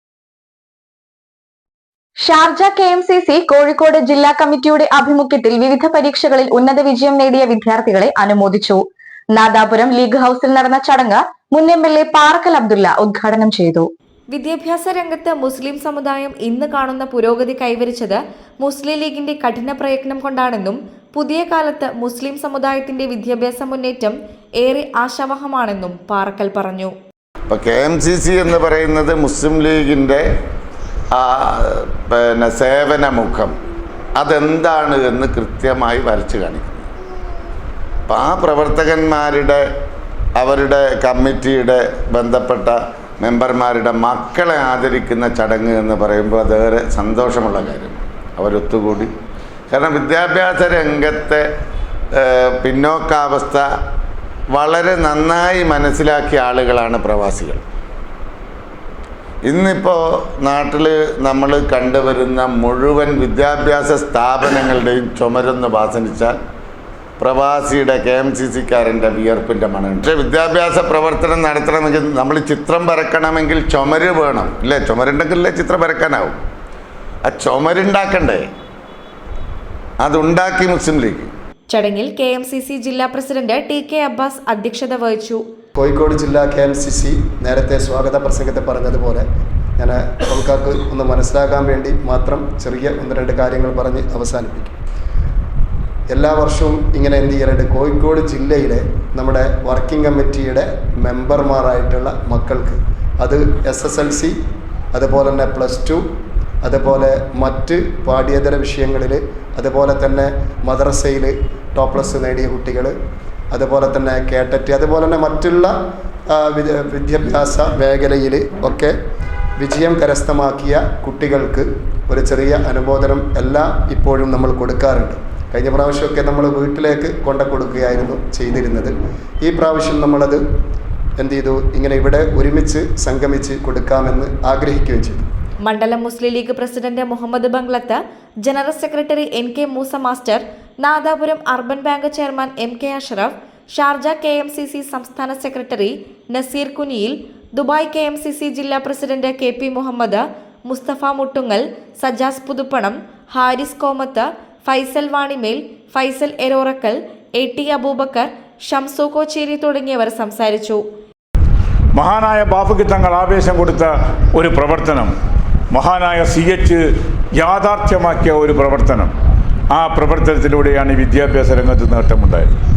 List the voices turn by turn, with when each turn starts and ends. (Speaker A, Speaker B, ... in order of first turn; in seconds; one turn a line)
Speaker A: 2.2-13.9
Speaker B: 14.3-26.9
Speaker C: 27.5-30.2
Speaker C: 31.1-33.5
Speaker C: 34.1-36.9
Speaker C: 38.1-39.6
Speaker C: 40.4-49.1
Speaker C: 49.7-51.4
Speaker C: 52.1-53.6
Speaker C: 54.5-57.6
Speaker C: 59.4-66.4
Speaker C: 67.2-76.4
Speaker C: 77.2-78.5
Speaker C: 80.0-81.3
Speaker B: 81.7-85.4
Speaker D: 85.7-89.2
Speaker D: 89.8-94.7
Speaker D: 96.1-104.3
Speaker D: 104.9-106.0
Speaker D: 106.6-112.9
Speaker D: 113.5-115.7
Speaker D: 116.3-118.9
Speaker D: 119.6-130.4
Speaker D: 131.2-135.2
Speaker B: 135.6-160.8
Speaker E: 161.9-165.1
Speaker E: 165.7-166.8
Speaker E: 167.4-169.1
Speaker E: 169.7-172.5